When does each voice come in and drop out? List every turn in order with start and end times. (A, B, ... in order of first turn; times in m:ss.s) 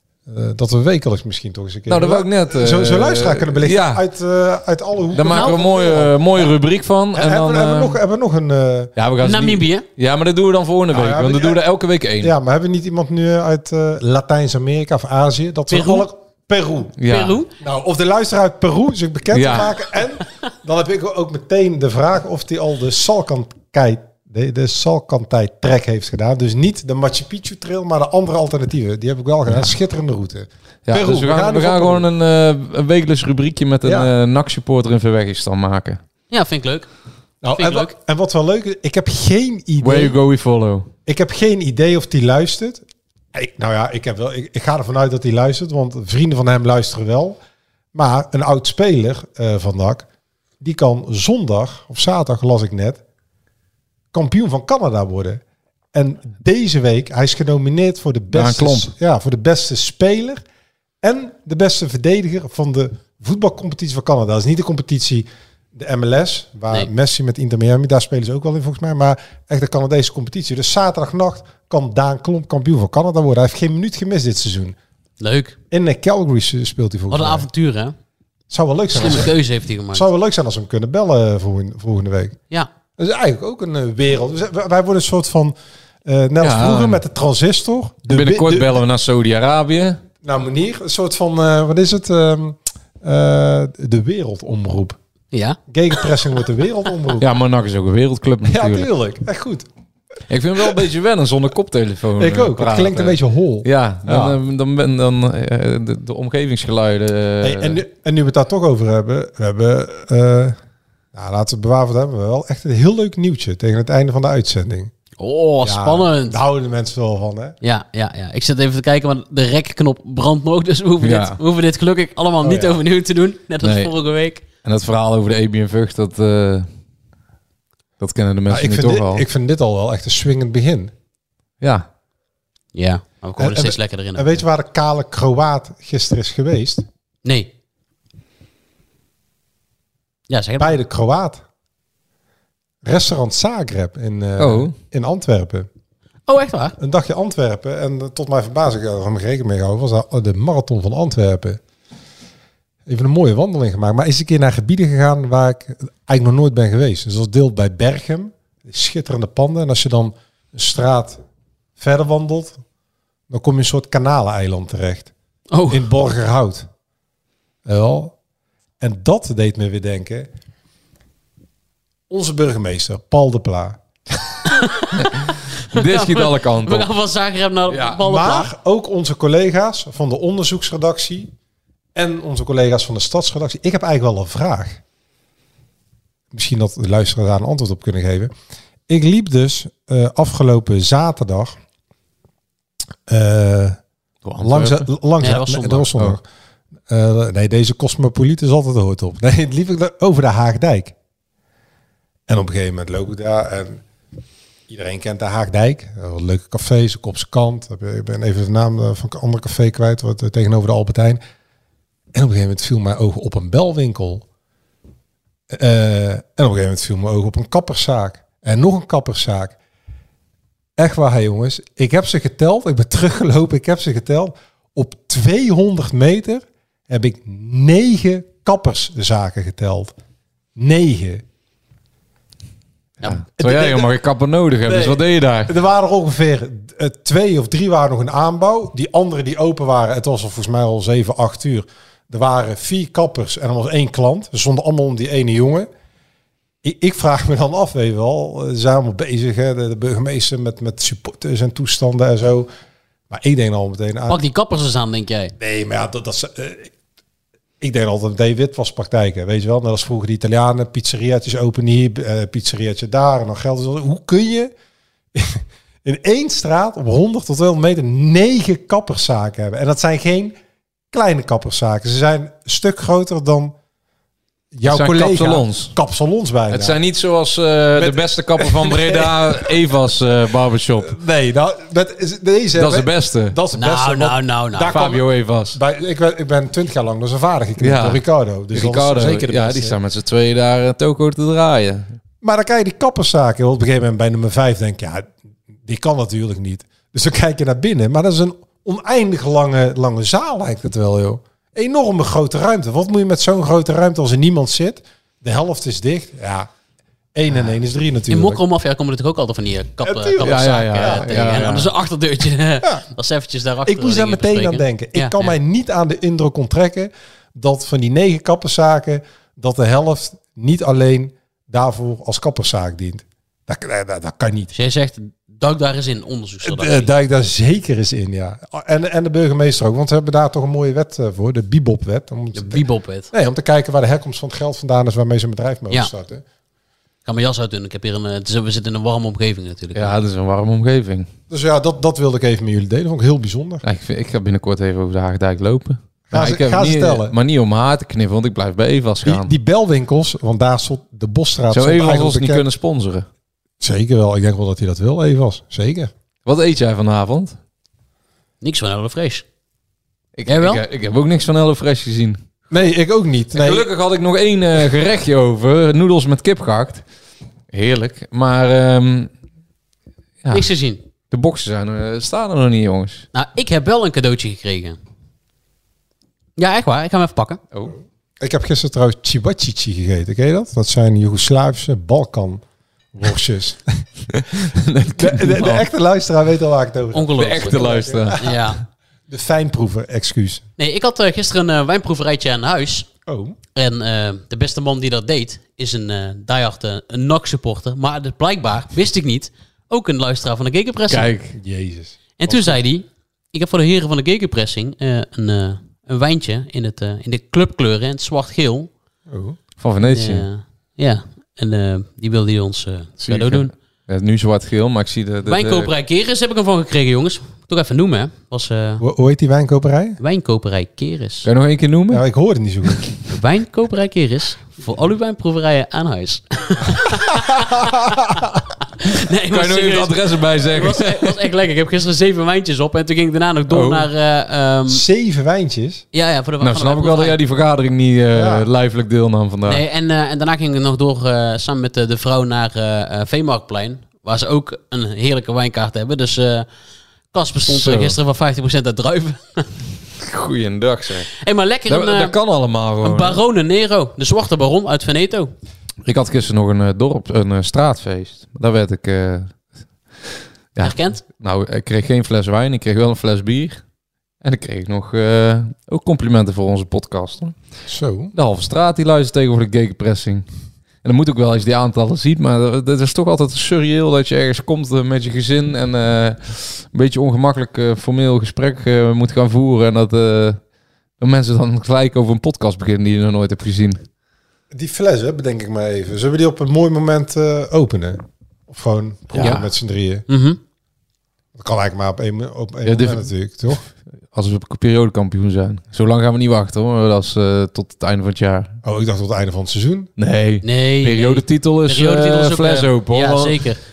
0:00.3-0:06.5 A
0:01.9-0:04.0 B
0:05.1-0:08.0 B
0:05.3-0:05.7 C
0:07.1-0:08.9 A
0:09.0-0:12.3 B
0:09.2-0:09.8 C
0:10.9-0:11.6 A
0:12.2-0:17.0 A
0:15.7-0:16.1 C
0:17.0-0:17.4 B
0:17.1-0:17.5 C
0:17.6-0:32.1 A
0:19.3-0:19.8 B
0:30.8-0:36.0 B
0:33.8-0:34.1 A
0:36.3-0:36.9 C
0:37.4-0:40.2 A
0:37.5-0:37.9 C
0:39.8-0:40.9 B
0:41.1-0:47.4 A
0:47.9-0:50.1 A
0:50.6-0:53.0 A
0:54.1-0:55.4 A
0:55.9-1:00.4 A
0:58.3-0:58.9 B
1:01.0-1:14.8 A
1:15.2-1:15.6 C
1:15.7-1:17.5 A
1:17.1-1:18.0 C
1:18.5-1:19.3 A
1:18.9-1:20.1 C
1:19.9-1:22.4 A
1:23.0-1:28.8 A
1:26.4-1:27.0 B
1:28.1-1:30.0 B
1:30.2-1:35.0 A
1:35.3-1:35.6 C
1:35.7-1:37.3 A
1:37.2-1:38.9 B
1:38.4-1:39.7 A
1:40.3-1:47.8 B
1:42.2-1:44.4 A
1:47.4-1:50.6 A
1:51.1-1:54.9 A
1:55.2-1:56.4 C
1:55.6-1:57.6 A
1:57.6-2:04.4 C
2:01.0-2:01.4 B
2:02.4-2:02.8 A
2:03.6-2:03.9 B
2:04.6-2:06.7 B
2:08.0-2:09.2 B
2:08.5-2:10.9 A
2:11.6-2:11.9 B
2:12.8-2:14.4 C
2:13.4-2:16.8 A
2:17.2-2:17.5 C
2:20.3-2:20.8 C
2:20.6-2:21.4 A
2:22.8-2:25.7 A
2:24.4-2:24.8 B
2:26.3-2:26.8 C
2:26.8-2:31.6 A
2:32.9-2:41.2 A
2:41.8-2:42.6 A
2:43.3-2:45.1 A
2:45.5-2:45.9 C
2:45.7-2:46.7 A
2:47.6-2:48.2 A
2:48.8-2:50.3 A
2:52.1-2:53.8 A
2:54.5-2:55.1 C
2:55.7-2:56.9 B
2:55.7-2:58.5 C
2:57.7-2:58.0 B
2:58.0-3:01.3 A
3:02.0-3:04.8 A
3:06.3-3:08.3 A
3:08.9-3:11.6 A
3:13.1-3:13.8 A
3:14.2-3:14.9 B
3:14.4-3:16.2 A
3:15.2-3:15.9 C
3:16.9-3:20.9 A
3:22.3-3:23.8 A
3:24.7-3:31.2 A
3:32.1-3:34.3 A
3:35.5-3:39.6 A
3:40.8-3:50.0 A
3:50.6-3:51.2 A
3:53.1-3:55.5 B
3:53.4-3:53.9 A
3:54.6-4:05.7 A
4:06.6-4:12.5 A
4:13.1-4:14.2 A
4:14.1-4:15.3 C
4:15.4-4:16.7 A
4:17.6-4:24.5 A
4:25.1-4:30.4 A
4:30.9-4:33.6 A
4:34.5-4:36.8 A
4:34.6-4:35.7 B
4:36.5-4:41.0 B
4:37.8-4:39.5 A
4:40.8-4:49.8 A
4:42.6-4:43.4 B
4:43.6-4:44.8 C
4:44.7-4:45.6 B
4:47.6-4:48.0 B
4:48.5-4:51.9 B
4:52.2-4:55.1 A
4:55.6-5:06.5 A
5:07.2-5:08.4 A
5:08.1-5:15.4 C
5:09.8-5:11.6 A
5:10.2-5:11.7 B
5:13.6-5:24.5 A
5:24.5-5:26.9 C
5:26.4-5:36.2 A
5:32.3-5:33.1 C
5:37.0-5:40.0 C
5:39.8-5:41.1 B
5:41.3-5:43.6 A
5:43.6-5:49.3 B
5:46.1-5:47.2 A
5:49.0-5:52.4 A
5:51.5-5:53.1 B
5:53.6-5:55.9 A
5:56.2-5:57.4 B
5:58.4-5:59.2 C
6:00.2-6:02.2 B
6:00.3-6:00.6 C
6:02.5-6:03.7 A
6:03.3-6:06.8 B
6:07.5-6:09.1 B
6:10.2-6:10.5 B
6:10.3-6:10.8 C
6:11.1-6:13.1 B
6:13.1-6:14.8 C
6:16.4-6:17.4 C
6:18.2-6:22.4 A
6:22.9-6:23.8 A
6:24.1-6:25.7 B
6:25.0-6:28.3 A
6:26.9-6:28.6 C
6:27.2-6:28.4 B
6:29.1-6:30.5 A
6:30.6-6:32.9 C
6:33.1-6:33.4 A
6:33.6-6:41.1 C
6:40.9-6:41.4 B
6:41.4-6:42.6 A
6:42.2-6:48.7 C
6:49.1-6:49.4 A
6:49.6-6:50.3 B
6:49.9-6:53.5 C
6:53.0-6:55.7 B
6:55.3-6:58.8 C
6:58.8-7:00.0 A
7:00.0-7:01.3 C
7:01.2-7:02.0 B
7:01.9-7:02.9 A
7:03.1-7:07.9 C
7:08.8-7:14.8 C
7:09.3-7:11.2 B
7:13.5-7:13.9 B
7:14.7-7:15.8 A
7:15.9-7:17.2 C
7:16.4-7:19.6 B
7:18.1-7:18.5 A
7:19.5-7:26.5 C
7:27.1-7:29.5 C
7:27.5-7:28.0 B
7:30.0-7:31.2 B
7:31.2-7:32.1 C
7:31.7-7:33.2 B
7:32.8-7:35.3 C
7:35.8-7:39.3 B
7:40.6-7:43.6 B
7:40.6-7:41.0 C
7:44.2-7:47.4 B
7:47.7-7:48.1 A
7:48.1-7:50.2 B
7:50.8-8:00.4 B
8:01.0-8:03.8 B
8:04.5-8:10.0 A
8:09.2-8:09.5 C
8:10.1-8:10.4 C
8:11.4-8:13.6 A
8:12.6-8:13.1 B
8:14.1-8:18.6 B
8:18.6-8:19.9 A
8:20.0-8:23.4 B
8:20.4-8:23.6 C